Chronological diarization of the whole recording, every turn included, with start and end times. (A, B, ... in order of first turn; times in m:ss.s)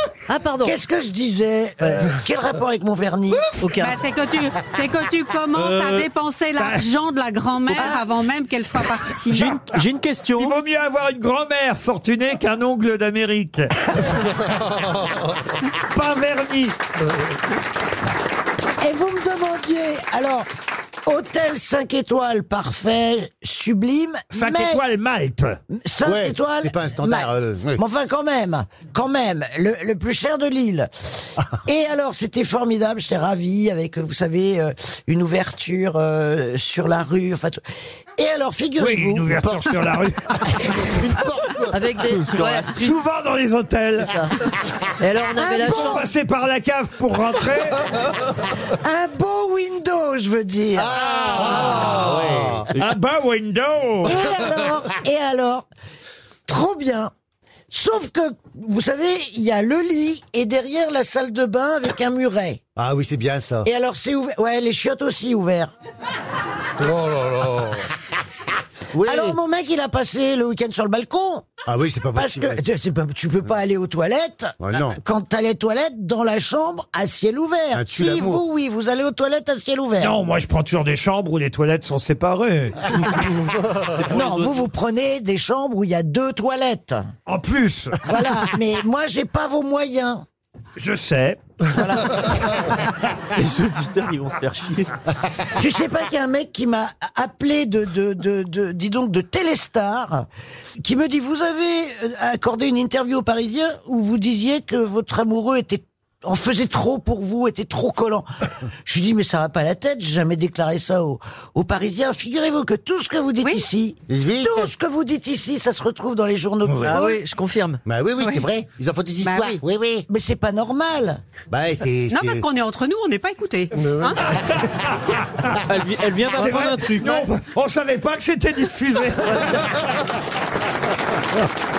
0:00.3-0:00.8 A
0:00.6-0:03.6 B
0:03.6-0:03.9 A
0:03.7-0:09.6 C
0:06.6-0:06.8 D
0:09.3-0:10.5 E
0:10.4-0:14.2 D
0:15.9-0:16.7 D
0:18.8-0:20.5 B
0:21.0-0:24.8 B
0:24.3-0:25.6 D
0:25.7-0:30.9 B
0:26.0-0:27.8 F
0:31.6-0:37.6 B
0:38.2-0:39.5 B
0:38.8-0:40.4 D
0:41.7-0:42.8 A
0:42.2-0:42.9 E
0:42.8-0:44.1 D
0:44.0-0:44.3 A
0:45.0-0:46.0 A
0:45.4-0:46.0 B
0:45.6-0:47.8 D
0:48.7-0:51.0 B
0:50.9-0:52.6 F
0:51.3-0:51.8 D
0:52.7-0:54.1 D
0:54.0-0:55.6 B
0:56.5-0:57.1 B
0:57.7-1:02.6 B
1:02.8-1:03.7 F
1:03.6-1:05.7 B
1:09.0-1:09.3 F
1:09.0-1:11.4 B
1:11.7-1:12.6 F
1:12.1-1:20.2 B
1:14.6-1:15.0 F
1:17.7-1:18.4 F
1:20.0-1:22.7 D
1:23.8-1:24.6 E
1:24.1-1:27.1 B
1:27.3-1:28.0 D
1:28.0-1:30.2 B
1:30.8-1:31.4 D
1:33.3-1:34.9 E
1:35.6-1:40.2 B
1:40.8-1:48.3 B
1:48.8-1:57.2 B
1:54.1-1:54.7 F
1:56.9-1:57.8 A
1:57.8-2:00.0 F
1:58.2-1:58.4 C
1:59.2-1:59.6 C
2:00.1-2:01.2 B
2:01.5-2:02.5 F
2:02.1-2:04.2 C
2:05.7-2:07.2 E
2:06.3-2:09.7 D